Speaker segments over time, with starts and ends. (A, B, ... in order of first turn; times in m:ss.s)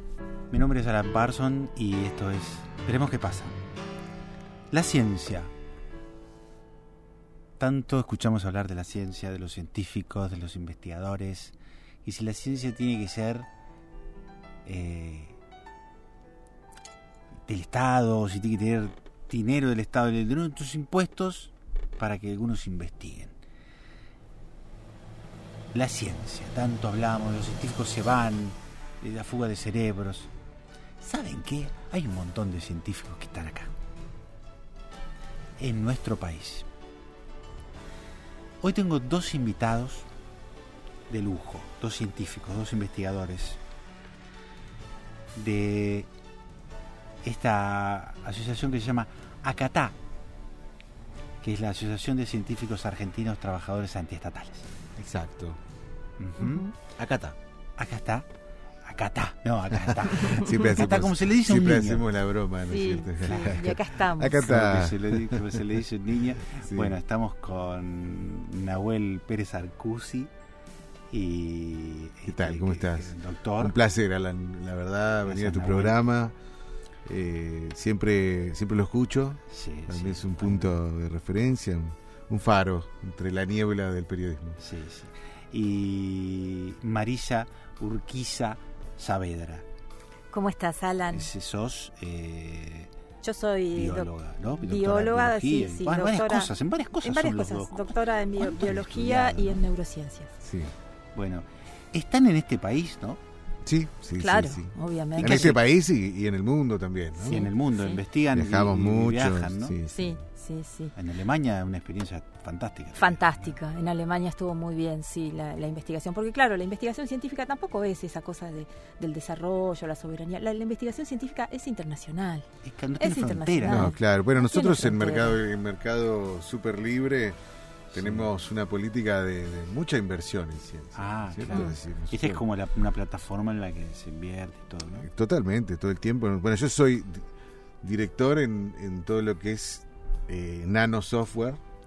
0:00.5-0:03.6 A
0:04.7-0:05.5 A
0:07.6-0:13.5 A
0:14.6-0:15.4 A
0:17.5-0:23.3 A
0:25.7-0:30.3 A
0:31.0-0:33.7 A
0:35.6-0:36.7 A
0:38.6-0:40.1 A
0:41.1-0:43.6 A
0:45.4-0:46.1 A
0:47.2-0:50.0 A
0:51.4-0:54.7 A
0:55.0-0:55.6 B
0:56.2-0:56.7 A
0:56.4-0:56.7 C
0:57.0-0:57.4 B
0:57.8-0:58.3 A
0:58.9-1:02.1 A
1:00.0-1:05.6 B
1:02.7-1:04.4 C
1:03.2-1:03.7 A
1:04.3-1:10.3 A
1:06.5-1:07.0 B
1:11.1-1:13.8 A
1:12.3-1:16.4 B
1:15.2-1:16.0 A
1:17.1-1:24.6 B
1:19.5-1:20.7 A
1:24.6-1:29.6 A
1:30.3-1:31.3 C
1:31.1-1:32.9 A
1:33.2-1:40.3 C
1:33.7-1:39.6 A
1:40.4-1:40.7 B
1:41.2-1:43.2 A
1:43.6-1:47.5 B
1:44.2-1:45.6 C
1:45.2-1:45.6 A
1:47.2-1:48.0 C
1:47.2-1:49.8 A
1:48.3-1:50.2 B
1:49.9-1:50.9 C
1:51.0-1:53.4 A
1:53.0-2:02.5 C
2:02.6-2:03.9 A
2:03.0-2:05.4 C
2:03.7-2:07.4 B
2:07.9-2:08.3 A
2:07.9-2:12.4 B
2:11.0-2:15.1 A
2:15.0-2:17.2 B
2:17.8-2:21.6 B